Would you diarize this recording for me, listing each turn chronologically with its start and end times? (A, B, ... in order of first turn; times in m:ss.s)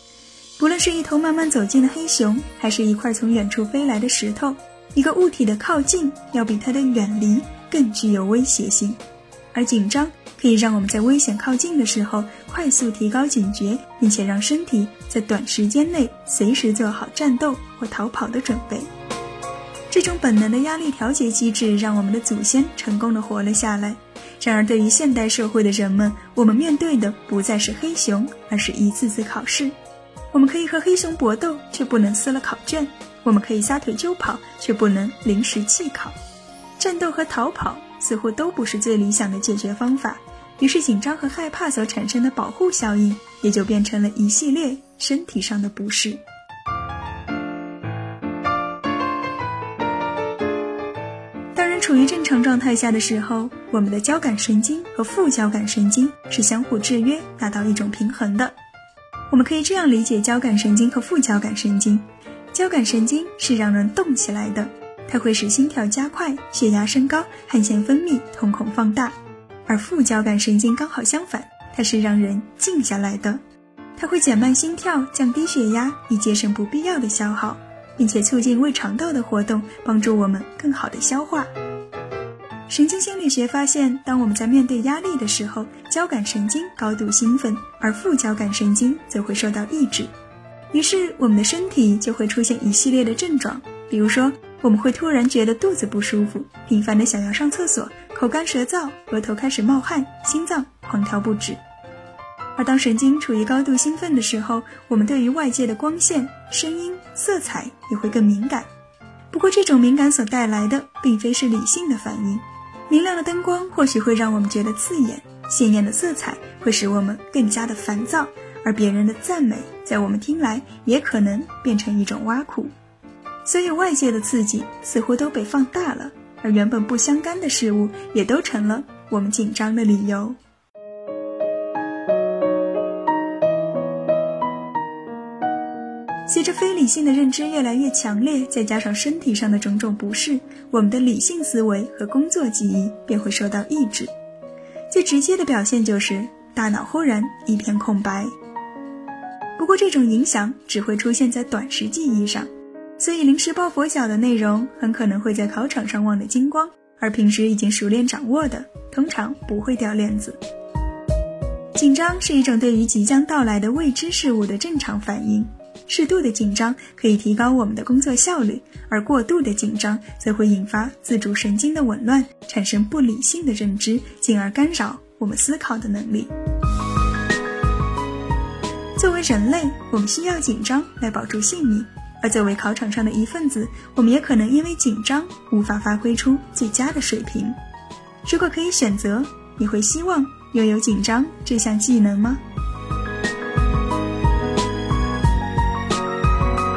0:00.6-0:09.0 A
0:09.5-0:18.9 A
0:19.9-0:29.7 A
0:30.3-0:36.2 A
0:36.8-0:46.2 A
0:51.5-0:58.5 A
0:59.3-1:13.4 A
1:14.0-1:21.5 A
1:22.7-1:30.1 A
1:30.7-1:41.6 A
1:42.6-1:48.7 A
1:49.3-2:02.7 A
2:03.4-2:10.4 A
2:16.3-2:24.1 A
2:24.9-2:28.3 A
2:29.6-2:40.4 A
2:41.7-2:56.3 A
2:59.0-3:07.6 A
3:08.2-3:12.4 A